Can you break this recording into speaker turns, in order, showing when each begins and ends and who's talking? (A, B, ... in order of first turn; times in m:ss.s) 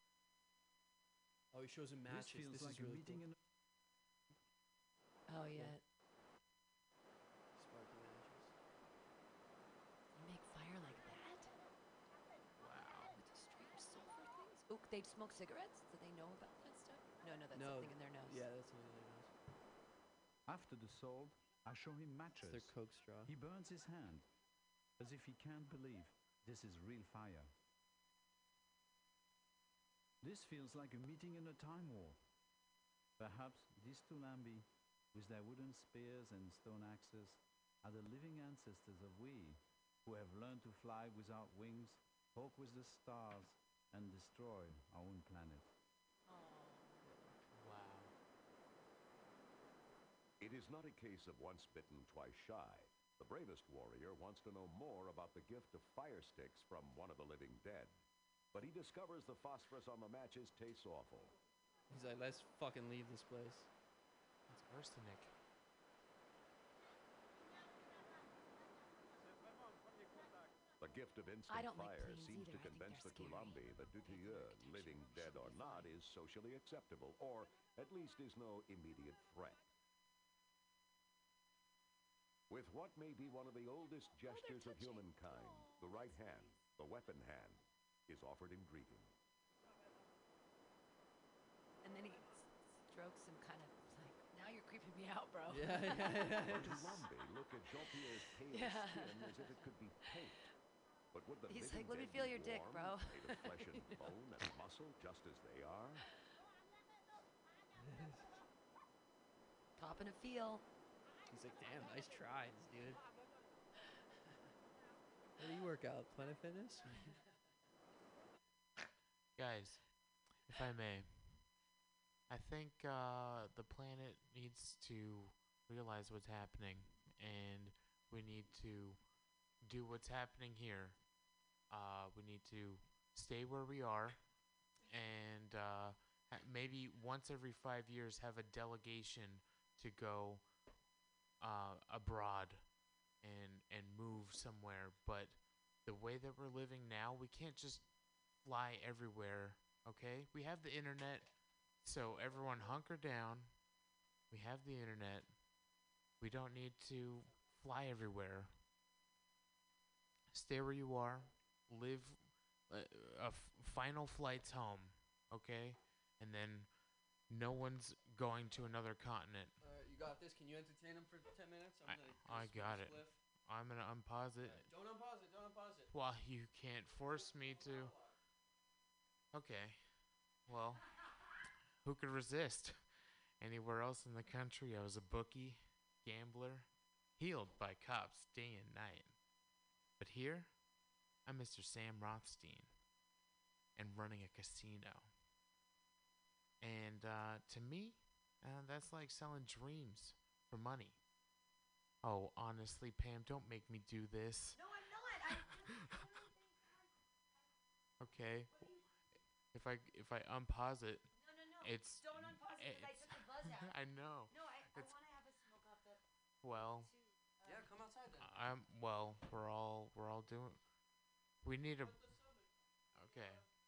0:01.5-0:03.2 A
0:02.0-0:03.4 B
0:05.3-0:05.8 C
0:05.5-0:05.7 A
0:07.5-0:08.5 A
0:10.1-0:11.5 C
0:12.6-0:13.2 D
0:13.1-0:18.4 C
0:17.5-0:19.4 A
0:20.5-0:24.3 B
0:22.4-0:23.3 A
0:25.0-0:27.5 B
0:30.2-0:32.2 B
0:33.2-0:45.7 B
0:46.3-0:47.0 C
0:47.0-0:47.4 A
0:47.5-0:48.1 D
0:50.4-0:58.0 E
0:58.5-1:01.3 E
1:01.9-1:03.7 A
1:04.5-1:05.3 D
1:10.8-1:19.6 E
1:11.5-1:15.9 C
1:22.5-1:29.1 E
1:24.2-1:26.7 C
1:31.8-1:36.8 C
1:35.5-1:37.0 A
1:36.5-1:40.4 E
1:37.8-1:40.5 C
1:41.1-1:46.1 E
1:41.5-1:44.5 C
1:47.8-1:48.2 A
1:49.8-1:50.6 C
1:51.3-1:53.0 A
1:55.4-1:57.1 A
1:59.4-1:59.8 D
2:00.5-2:01.4 D
2:02.3-2:09.0 D
2:09.6-2:11.0 D
2:11.7-2:14.2 D
2:14.9-2:20.4 D
2:21.4-2:22.6 D
2:23.2-2:27.9 D
2:28.4-2:33.5 D
2:34.3-2:35.4 D
2:36.2-2:38.5 D
2:40.3-2:46.7 D
2:47.3-2:49.6 D
2:49.6-2:53.2 A
2:51.8-2:54.7 D
2:54.4-2:55.9 A
2:55.9-2:58.0 D
2:57.1-2:58.2 A
2:59.3-2:59.9 D
3:00.4-3:00.9 D
3:01.8-3:02.8 D
3:03.4-3:09.2 D
3:10.0-3:10.5 D
3:11.2-3:12.7 D
3:13.8-3:15.1 D
3:16.6-3:21.0 D
3:22.0-3:24.6 D
3:24.5-3:26.9 C
3:25.7-3:26.0 D
3:28.0-3:28.5 D
3:29.5-3:31.1 D
3:31.2-3:33.7 C
3:31.6-3:34.9 D
3:34.3-3:36.0 C
3:36.4-3:36.9 D
3:36.8-3:37.7 C
3:37.4-3:38.3 A
3:38.1-3:40.6 D
3:41.4-3:42.0 D
3:41.8-3:43.3 A
3:42.9-3:43.4 D